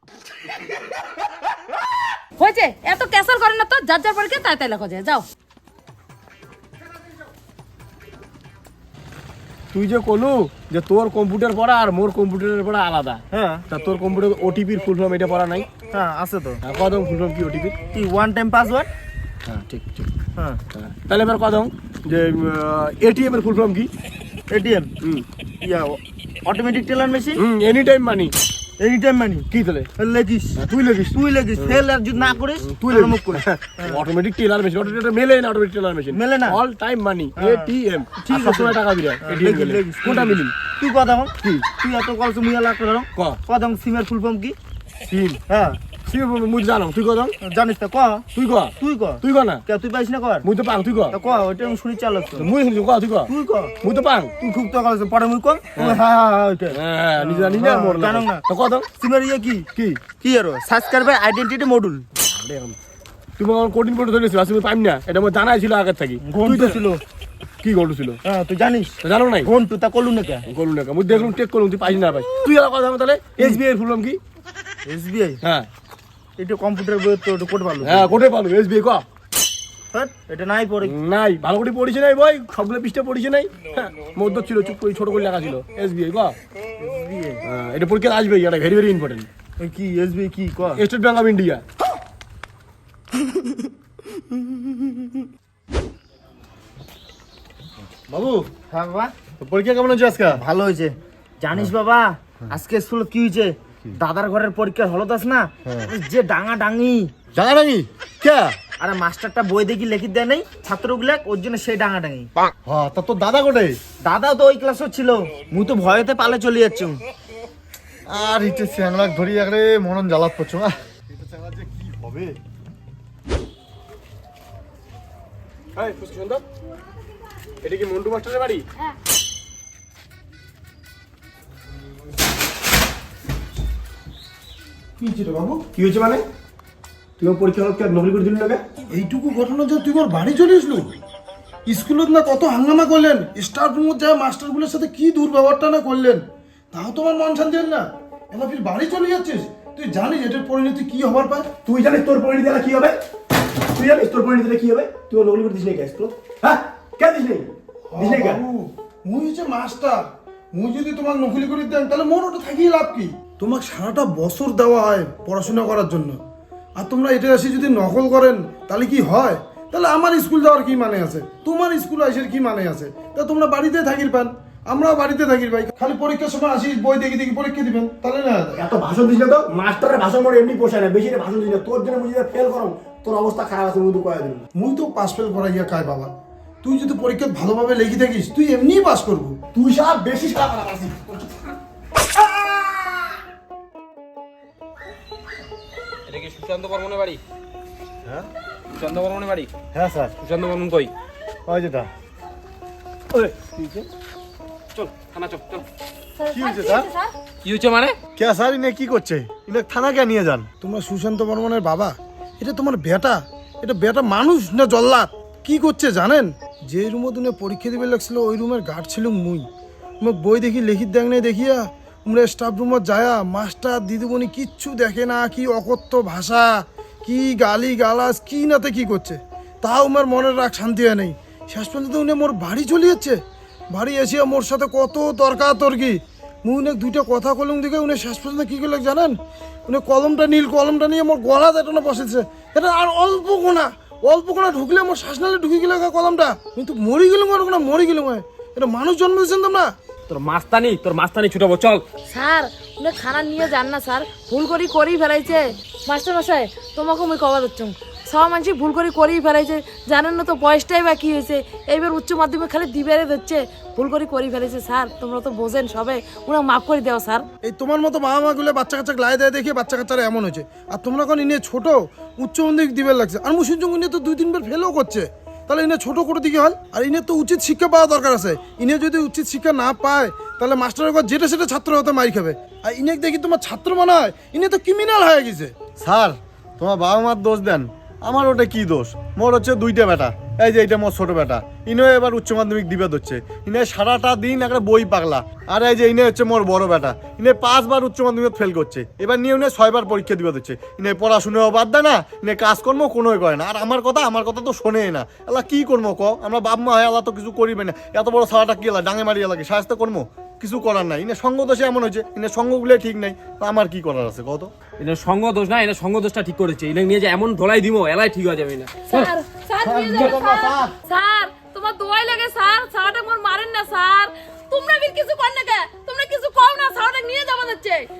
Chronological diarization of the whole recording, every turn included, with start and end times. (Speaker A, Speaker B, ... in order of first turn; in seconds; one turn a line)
Speaker A: 2.4-5.2
Speaker B: 9.7-15.7
Speaker C: 13.3-13.7
Speaker C: 15.9-16.6
Speaker B: 16.6-17.7
Speaker C: 17.9-18.9
Speaker B: 19.4-20.1
Speaker C: 20.3-20.6
Speaker B: 20.7-23.9
Speaker C: 24.5-24.9
Speaker C: 25.6-27.4
Speaker B: 27.4-28.3
Speaker C: 28.8-30.6
Speaker B: 29.5-29.9
Speaker B: 30.6-31.8
Speaker C: 31.1-34.0
Speaker B: 32.6-40.5
Speaker C: 36.1-36.6
Speaker C: 37.4-44.5
Speaker B: 45.1-45.4
Speaker C: 45.5-45.8
Speaker B: 46.0-47.3
Speaker C: 47.4-48.2
Speaker B: 48.3-49.6
Speaker C: 48.8-50.5
Speaker B: 50.4-51.1
Speaker C: 51.1-52.5
Speaker B: 52.4-53.3
Speaker C: 53.3-53.7
Speaker B: 53.8-54.3
Speaker C: 54.4-58.4
Speaker B: 56.7-58.9
Speaker C: 59.0-59.7
Speaker B: 59.7-60.0
Speaker C: 60.2-62.0
Speaker B: 62.1-62.8
Speaker B: 63.4-66.8
Speaker C: 66.2-67.0
Speaker B: 67.6-68.2
Speaker C: 68.2-70.5
Speaker B: 69.0-69.5
Speaker B: 70.5-74.2
Speaker C: 74.8-75.4
Speaker B: 75.4-75.7
Speaker C: 76.4-78.2
Speaker B: 77.8-79.0
Speaker C: 79.9-80.9
Speaker B: 80.8-86.3
Speaker C: 86.8-87.4
Speaker B: 87.4-89.3
Speaker C: 89.6-90.8
Speaker B: 90.8-91.6
Speaker D: 98.1-98.5
Speaker C: 98.7-99.1
Speaker D: 99.4-100.4
Speaker C: 100.3-107.1
Speaker D: 105.6-105.9
Speaker D: 107.3-108.5
Speaker C: 108.8-112.3
Speaker D: 112.7-113.8
Speaker C: 114.0-117.0
Speaker D: 118.1-122.4
Speaker B: 125.7-126.4
Speaker B: 127.6-128.6
Speaker E: 135.0-135.6
Speaker B: 135.7-136.2
Speaker B: 137.2-138.6
Speaker E: 138.9-140.9
Speaker E: 141.7-151.5
Speaker B: 151.6-153.0
Speaker B: 153.7-158.4
Speaker E: 157.9-166.2
Speaker E: 166.8-178.7
Speaker B: 178.6-184.4
Speaker E: 184.6-186.1
Speaker E: 186.6-189.4
Speaker B: 189.5-191.5
Speaker F: 196.1-197.2
Speaker F: 198.7-199.5
Speaker D: 199.7-200.1
Speaker F: 200.2-200.9
Speaker D: 201.4-201.9
Speaker B: 203.1-203.9
Speaker F: 204.7-205.6
Speaker A: 206.2-207.1
Speaker D: 206.3-206.9
Speaker F: 207.4-208.0
Speaker D: 208.2-210.5
Speaker E: 210.6-219.5
Speaker E: 220.0-233.2
Speaker E: 233.7-249.7
Speaker F: 250.1-251.8
Speaker A: 252.1-267.2
Speaker E: 267.4-285.5
Speaker D: 285.8-314.5
Speaker F: 314.8-319.1
Speaker A: 319.1-327.9
Speaker D: 319.6-320.7